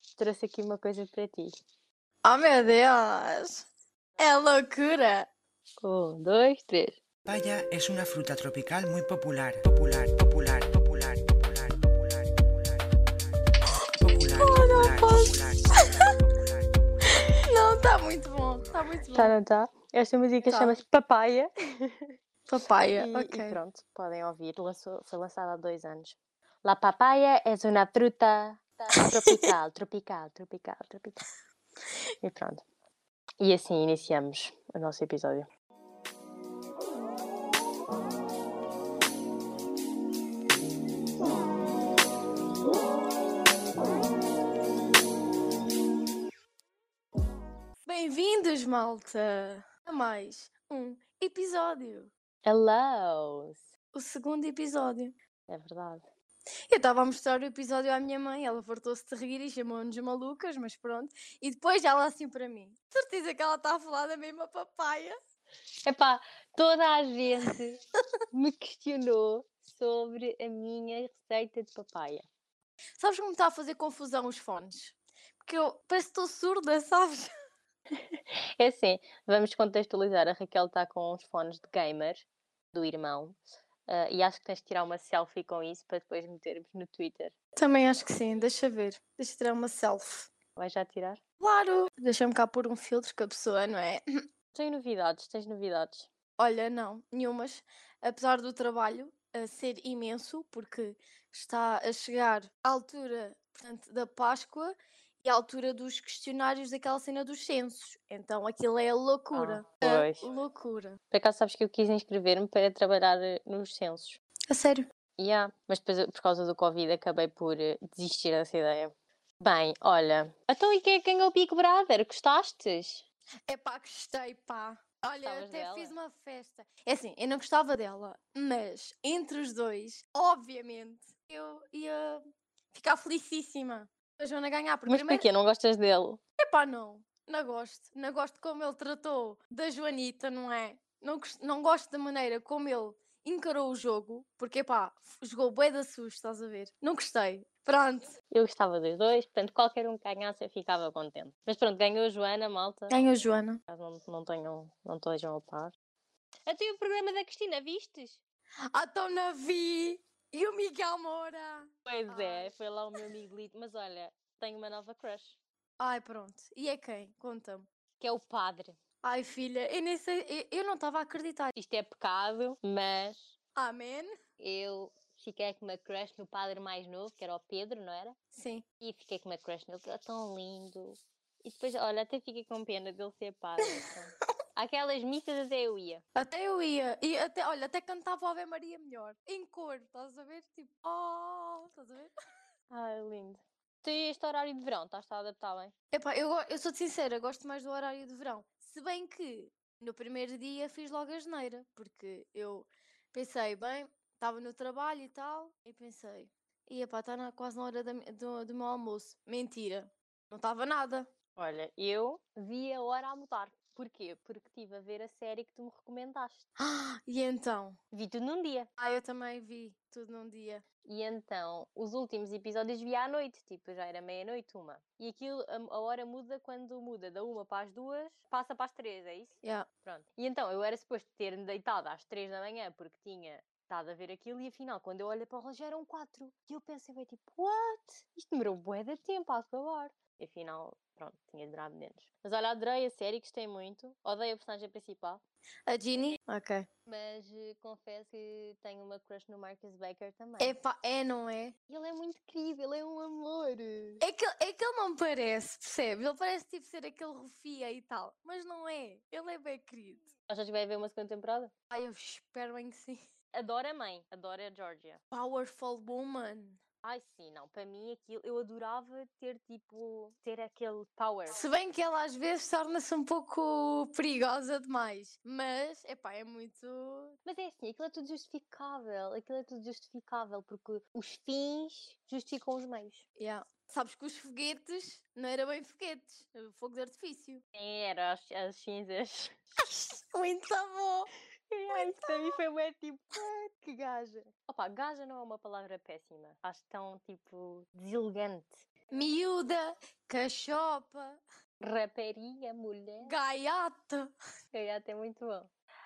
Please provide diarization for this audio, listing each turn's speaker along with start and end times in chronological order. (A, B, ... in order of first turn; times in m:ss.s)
0:00.2-0:01.5 A
0:02.2-0:03.7 B
0:04.2-0:05.3 B
0:05.8-0:07.0 A
0:07.3-0:12.8 C
0:14.0-0:17.2 C
0:14.4-0:15.9 B
0:17.3-0:19.4 B
0:19.1-0:22.1 A
0:20.5-0:20.8 B
0:22.5-0:23.6 B
0:23.0-0:31.2 A
0:32.2-0:32.6 A
0:33.4-0:35.5 A
0:47.8-0:52.1 B
0:52.4-0:53.6 A
0:53.9-0:55.2 B
0:55.5-0:56.0 A
0:56.7-1:05.2 B
1:05.9-1:07.8 A
1:08.3-1:12.3 A
1:13.0-1:17.3 B
1:18.0-1:27.3 A
1:27.6-1:30.3 B
1:30.6-1:31.2 A
1:31.4-1:34.0 B
1:34.5-1:36.1 A
1:36.4-1:51.0 B
1:49.3-1:50.2 A
1:51.1-1:54.2 A
1:54.5-1:54.8 B
1:55.2-2:03.0 A
2:03.5-2:15.3 B
2:05.2-2:06.0 A
2:14.9-2:16.2 A
2:16.4-2:28.1 B
2:28.3-2:33.0 A
2:32.9-2:33.6 B
2:33.7-2:35.7 A
2:36.5-2:38.2 A
2:38.7-2:42.5 B
2:41.9-2:45.4 A
2:45.8-2:47.7 B
2:48.0-2:48.8 A
2:49.0-2:51.6 B
2:51.6-2:53.4 A
2:53.6-2:54.1 B
2:54.4-2:58.2 A
2:58.3-2:58.6 B
2:58.8-3:06.0 A
3:06.2-3:12.1 B
3:12.7-3:15.7 A
3:15.9-3:31.1 B
3:31.4-3:36.5 A
3:36.6-3:37.8 B
3:37.9-3:38.7 A
3:38.8-3:40.6 B
3:40.8-4:05.2 A
4:05.7-4:06.7 B
4:06.9-4:10.6 A
4:10.4-4:11.6 B
4:11.7-4:14.0 A
4:14.0-4:20.1 B
4:20.3-4:21.5 A
4:21.7-4:23.0 B
4:23.3-4:25.0 A
4:25.1-4:26.6 B
4:26.8-4:31.4 A
4:31.3-4:37.2 B
4:37.2-4:43.0 A
4:43.2-4:47.4 B
4:47.6-4:49.4 A
4:49.6-4:51.1 B
4:51.5-4:58.7 A
4:51.7-4:52.4 B
4:58.9-5:01.2 B
5:01.6-5:03.1 A
5:03.0-5:04.1 B
5:04.5-5:05.5 A